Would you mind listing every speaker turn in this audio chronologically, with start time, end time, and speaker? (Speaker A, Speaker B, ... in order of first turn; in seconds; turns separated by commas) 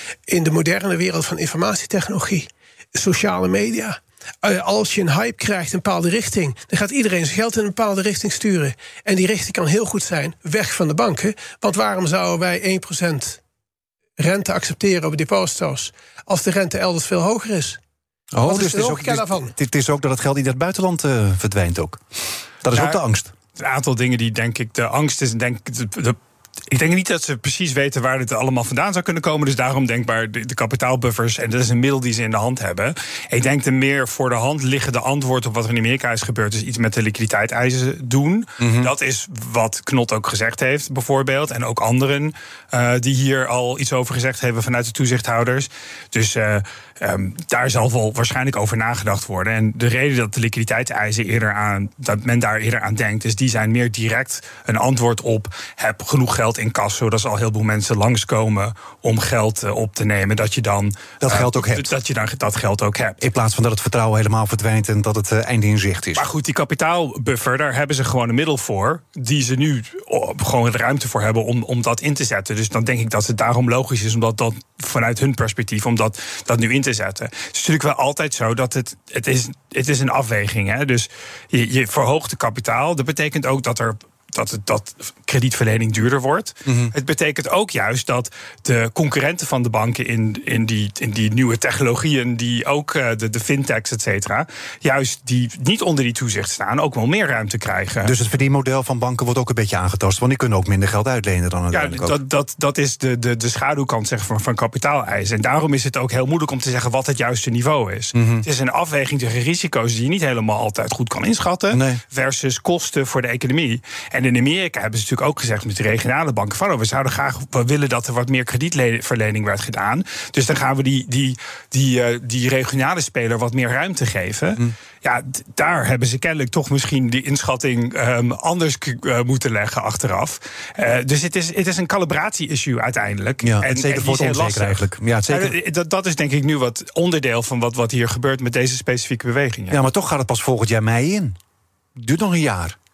Speaker A: 0.3-13.4, Speaker A: 14.2-17.8, Speaker B: 18.3-22.0, Speaker A: 18.4-19.5, Speaker B: 22.6-23.3, Speaker C: 22.7-23.0, Speaker C: 23.6-26.2, Speaker C: 26.7-63.2, Speaker B: 38.6-38.9, Speaker B: 61.2-61.9, Speaker B: 63.2-66.3, Speaker C: 66.2-98.1, Speaker B: 86.7-86.9, Speaker B: 98.0-102.2, Speaker C: 101.7-139.8, Speaker B: 108.1-108.5, Speaker B: 111.7-112.0, Speaker B: 133.4-135.6, Speaker B: 139.7-141.4, Speaker B: 142.0-142.8